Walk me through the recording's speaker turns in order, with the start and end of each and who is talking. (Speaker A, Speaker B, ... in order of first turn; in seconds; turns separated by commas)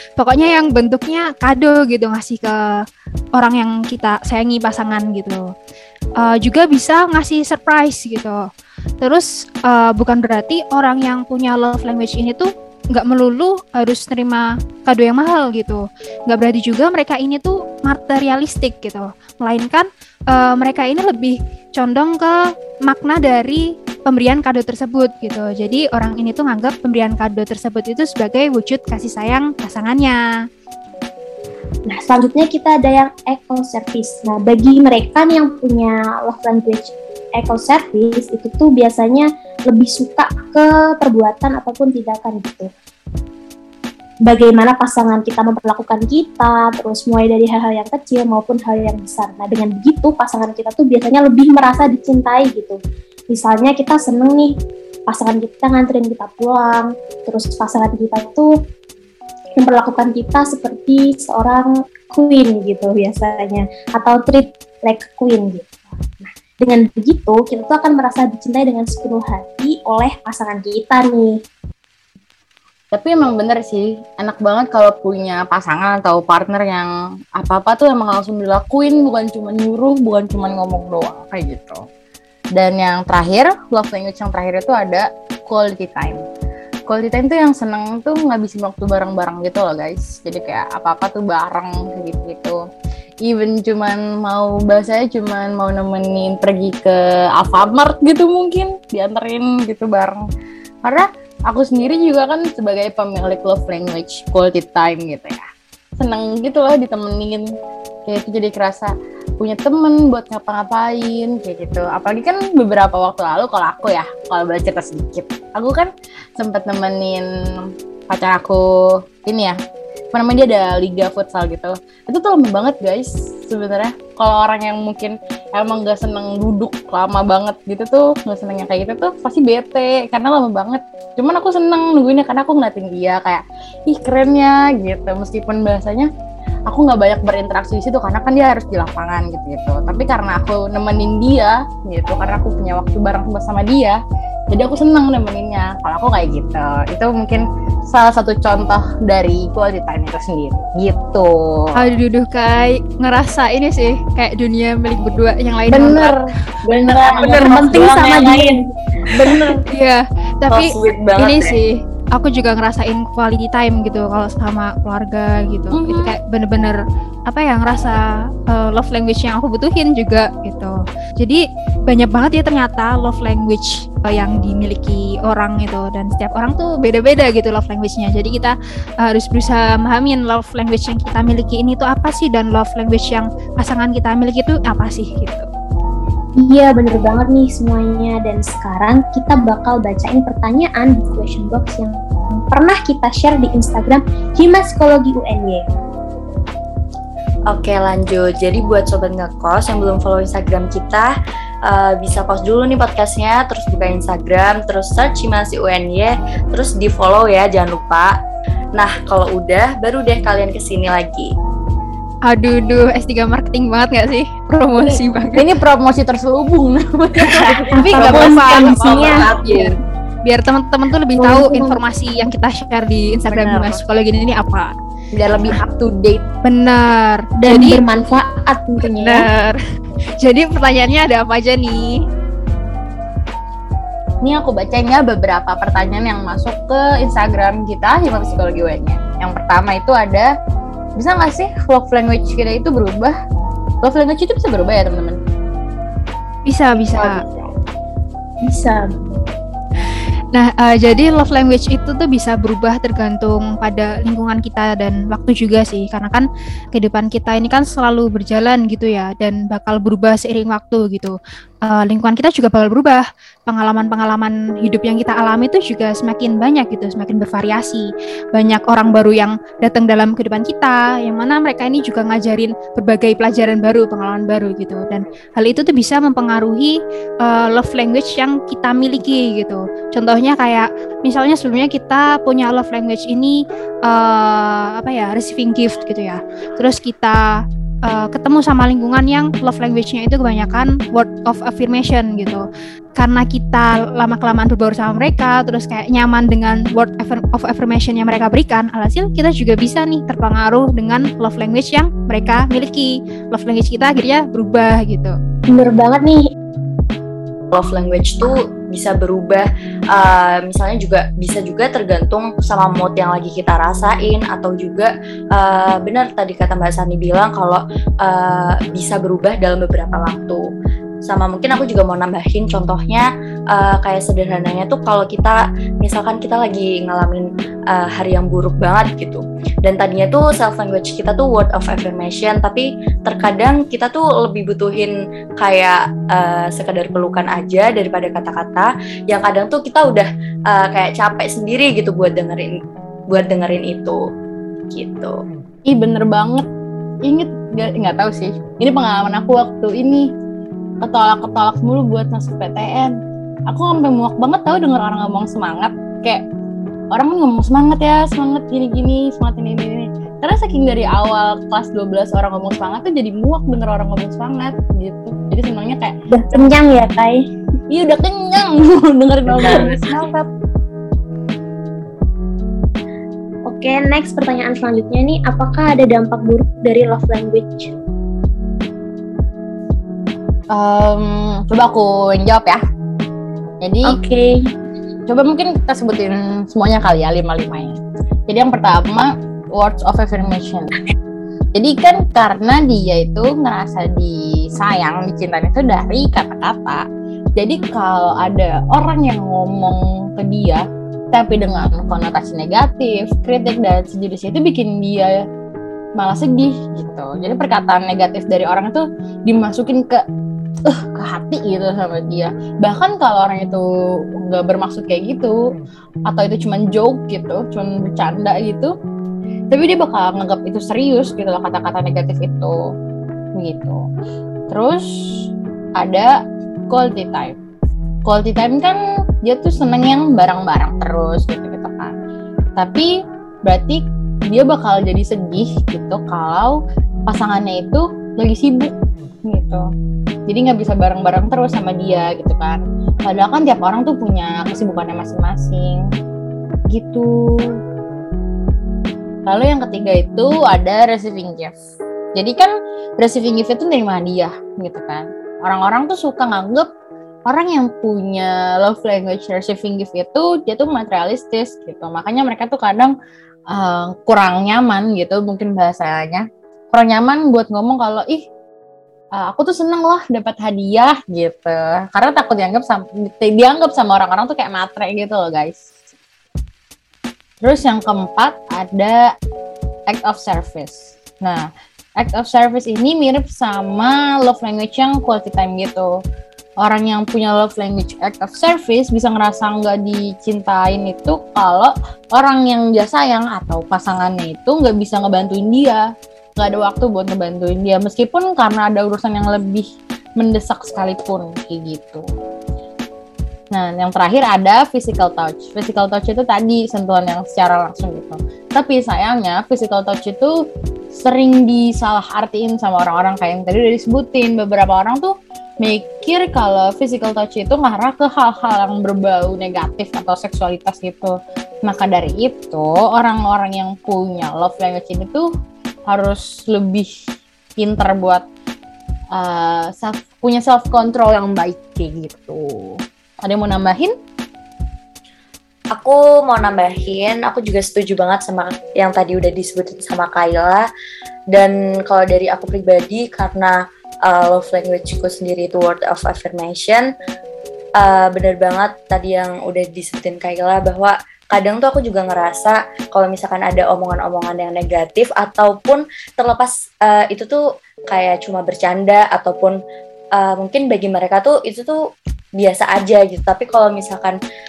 Speaker A: 0.2-2.8, Speaker A: 3.4-5.5, Speaker A: 6.2-8.4, Speaker A: 9.0-30.2, Speaker B: 31.9-42.7, Speaker B: 44.2-54.5, Speaker B: 55.1-58.6, Speaker B: 59.6-71.4, Speaker C: 72.9-81.8, Speaker C: 82.5-86.2, Speaker C: 86.9-92.6, Speaker C: 93.2-100.2, Speaker C: 100.8-105.5, Speaker C: 106.0-107.5, Speaker C: 108.0-119.5, Speaker C: 120.1-136.1, Speaker C: 136.7-144.0, Speaker C: 144.5-151.7, Speaker A: 151.7-156.2, Speaker C: 155.7-158.3, Speaker B: 156.8-159.6, Speaker D: 157.1-158.5, Speaker A: 159.6-185.5, Speaker D: 160.5-161.6, Speaker C: 165.7-166.1, Speaker B: 186.4-195.7, Speaker D: 197.5-201.1, Speaker D: 201.7-208.2, Speaker D: 208.7-211.3, Speaker A: 212.3-215.4, Speaker C: 214.8-219.7, Speaker D: 217.3-217.7, Speaker B: 217.7-219.6, Speaker A: 217.8-219.7, Speaker A: 220.2-224.7, Speaker B: 221.2-221.8, Speaker C: 223.3-223.8, Speaker C: 225.1-226.2, Speaker A: 226.4-227.8, Speaker B: 227.4-229.3, Speaker A: 228.9-229.6, Speaker A: 230.2-232.0, Speaker C: 234.2-240.3, Speaker C: 240.9-243.1, Speaker C: 243.8-245.2, Speaker A: 246.5-247.2, Speaker C: 246.9-247.2, Speaker B: 248.4-249.1, Speaker A: 250.3-305.1, Speaker B: 305.5-306.2, Speaker D: 307.5-320.4, Speaker D: 321.1-342.5, Speaker D: 343.1-344.0, Speaker D: 344.7-345.2, Speaker C: 345.7-346.5, Speaker C: 347.1-350.1, Speaker C: 350.8-353.0, Speaker C: 353.5-356.2, Speaker C: 356.9-365.9, Speaker B: 366.1-367.2, Speaker C: 367.7-370.2, Speaker B: 369.3-370.1, Speaker B: 373.5-377.7, Speaker C: 380.5-382.6, Speaker C: 383.6-384.0, Speaker B: 383.8-384.5, Speaker C: 385.1-390.7, Speaker C: 391.5-396.8, Speaker C: 397.4-405.2, Speaker C: 406.0-410.0, Speaker C: 410.6-413.6, Speaker C: 414.2-415.4, Speaker C: 416.1-418.7, Speaker C: 419.5-422.5, Speaker C: 423.4-423.8, Speaker C: 424.5-426.1, Speaker C: 426.7-427.4, Speaker C: 428.0-432.0, Speaker C: 432.6-432.9, Speaker C: 433.4-438.7, Speaker C: 439.3-439.6, Speaker C: 440.3-445.9, Speaker C: 446.7-447.6, Speaker C: 449.2-451.6, Speaker C: 452.1-456.7, Speaker C: 457.3-462.9, Speaker C: 463.5-468.3, Speaker C: 469.1-475.7, Speaker C: 477.4-479.1, Speaker C: 479.9-485.9, Speaker C: 486.6-495.8, Speaker C: 496.4-499.6, Speaker C: 500.2-502.0, Speaker C: 503.5-510.4, Speaker C: 510.9-521.1, Speaker C: 521.6-525.3, Speaker C: 525.9-526.9, Speaker C: 527.6-528.2, Speaker C: 529.1-533.9, Speaker D: 535.8-540.7, Speaker D: 541.3-546.9, Speaker D: 547.8-559.6, Speaker D: 560.1-561.8, Speaker D: 562.4-564.2